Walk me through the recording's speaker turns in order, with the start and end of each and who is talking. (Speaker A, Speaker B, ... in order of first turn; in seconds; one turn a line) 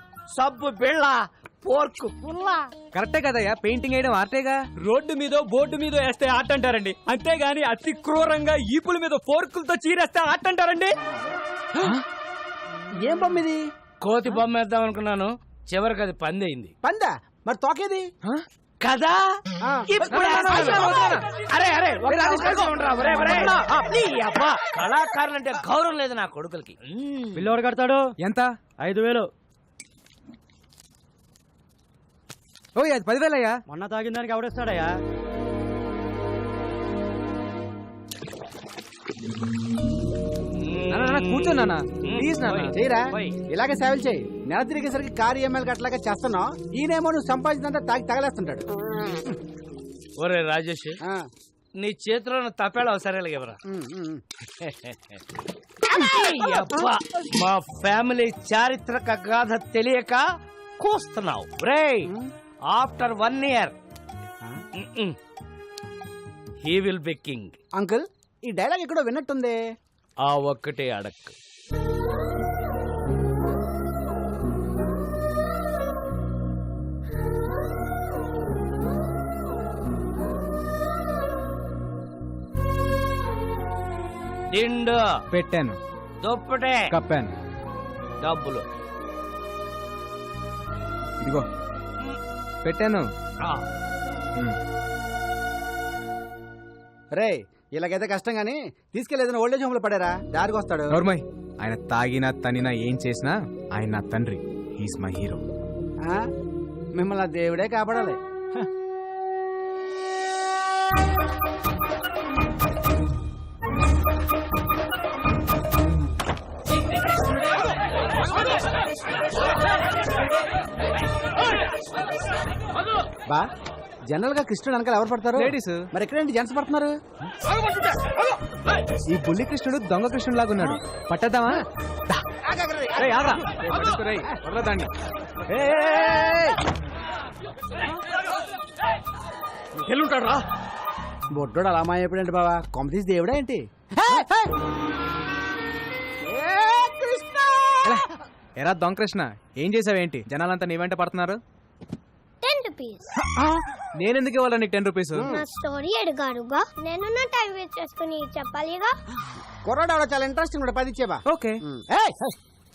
Speaker A: 0.3-2.7
Speaker B: 2.9-4.6
Speaker C: 4.8-10.9
Speaker B: 11.8-12.0
Speaker D: 13.0-13.6
Speaker A: 14.0-16.7
Speaker D: 16.8-18.1
Speaker A: 18.8-19.2
Speaker D: 19.6-19.9
Speaker A: 19.9-27.5
Speaker B: 20.0-21.2
Speaker B: 22.1-23.9
Speaker C: 27.4-28.1
Speaker B: 28.2-28.5
Speaker C: 28.8-29.3
Speaker B: 32.8-33.5
Speaker C: 33.7-35.0
Speaker A: 40.5-43.4
Speaker B: 40.9-42.7
Speaker D: 42.7-48.6
Speaker A: 50.2-51.0
Speaker A: 51.8-53.6
Speaker D: 53.7-54.2
Speaker A: 54.6-55.2
Speaker A: 55.9-60.2
Speaker A: 60.8-62.1
Speaker A: 62.7-63.7
Speaker A: 64.7-65.2
Speaker A: 66.6-67.5
Speaker D: 67.7-69.6
Speaker A: 70.2-71.3
Speaker A: 84.5-85.0
Speaker B: 85.3-85.8
Speaker A: 86.2-86.9
Speaker B: 86.9-87.3
Speaker A: 88.2-88.6
Speaker B: 92.6-93.0
Speaker D: 97.2-100.9
Speaker B: 100.9-105.4
Speaker D: 107.0-108.2
Speaker D: 124.1-126.9
Speaker B: 125.3-125.9
Speaker B: 129.1-132.2
Speaker B: 132.9-134.9
Speaker B: 135.6-136.5
Speaker D: 141.3-144.5
Speaker D: 146.3-147.8
Speaker B: 148.6-151.4
Speaker E: 152.4-153.0
Speaker B: 154.0-155.3
Speaker D: 155.1-155.4
Speaker E: 155.3-158.9
Speaker D: 159.6-162.3
Speaker B: 161.3-161.6